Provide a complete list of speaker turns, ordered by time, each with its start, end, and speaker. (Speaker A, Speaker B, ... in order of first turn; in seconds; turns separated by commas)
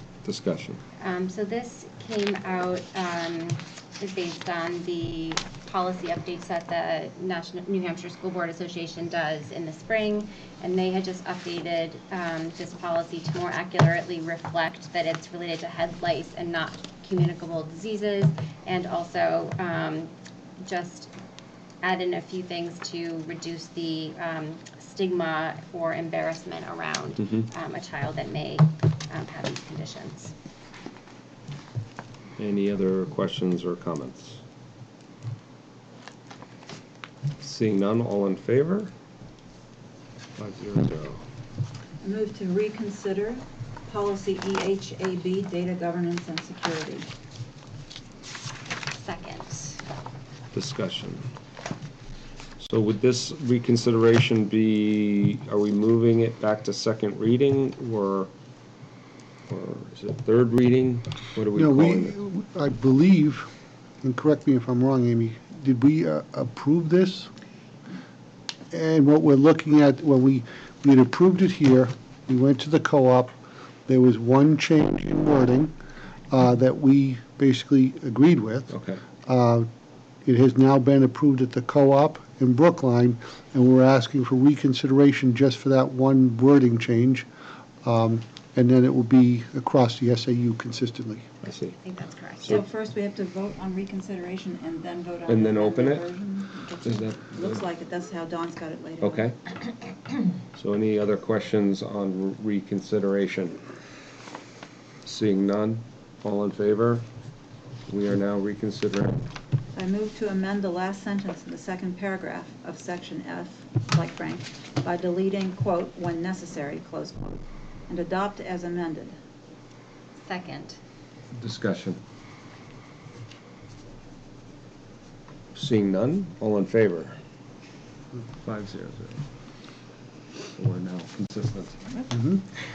Speaker A: 0.2-0.8, Speaker B: 1.0-21.1, Speaker B: 21.8-30.3, Speaker A: 32.4-34.4, Speaker A: 37.4-38.9, Speaker A: 40.4-41.2, Speaker C: 42.0-47.1, Speaker B: 49.0-49.8, Speaker A: 50.5-51.3, Speaker A: 52.6-58.3, Speaker A: 59.5-62.2, Speaker D: 61.5-63.5, Speaker D: 64.0-67.3, Speaker D: 68.7-73.3, Speaker D: 73.9-75.8, Speaker D: 76.3-79.7, Speaker A: 78.7-79.0, Speaker D: 80.2-87.3, Speaker D: 87.8-91.3, Speaker A: 91.4-91.8, Speaker B: 91.8-92.6, Speaker C: 92.5-99.3, Speaker A: 95.3-96.1, Speaker A: 96.8-97.7, Speaker A: 99.0-99.3, Speaker A: 100.5-103.6, Speaker A: 105.0-107.0, Speaker A: 107.9-109.2, Speaker C: 109.7-119.2, Speaker B: 120.2-120.8, Speaker A: 121.3-122.0, Speaker A: 125.5-127.2, Speaker A: 128.4-129.2, Speaker A: 130.6-131.8, Speaker D: 132.1-132.4